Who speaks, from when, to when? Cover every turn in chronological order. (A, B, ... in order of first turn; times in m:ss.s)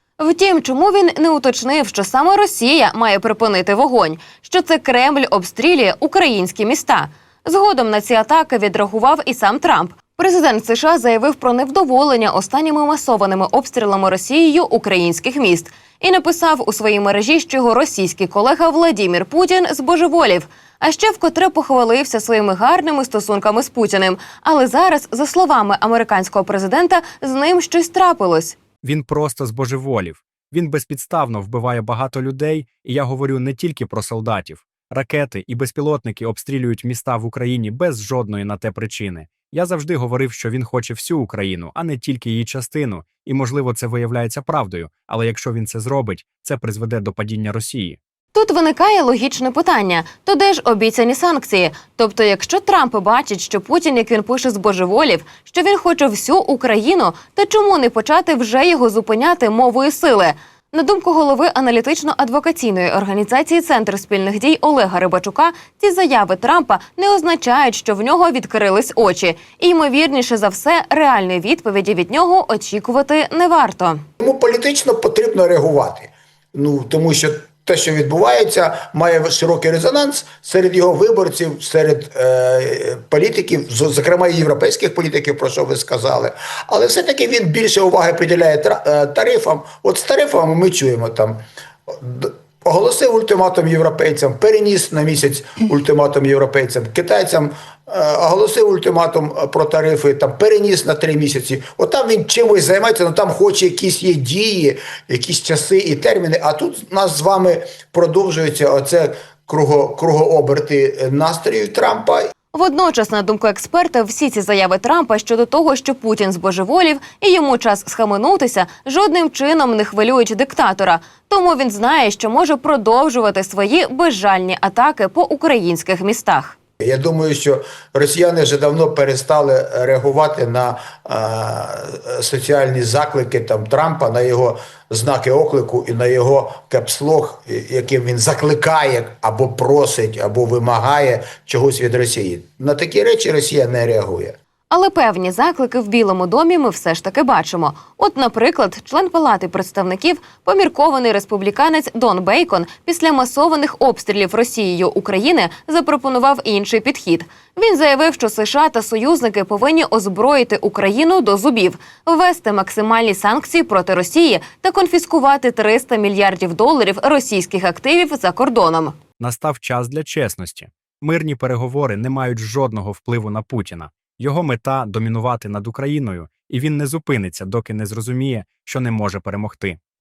0:00.2-0:28.6 A
0:28.8-0:48.0 B
0:48.3-1:14.0 A
1:14.2-1:52.2 C
1:52.5-2:06.6 A
2:06.8-2:24.4 C
2:24.7-2:49.0 A
2:49.2-2:59.8 B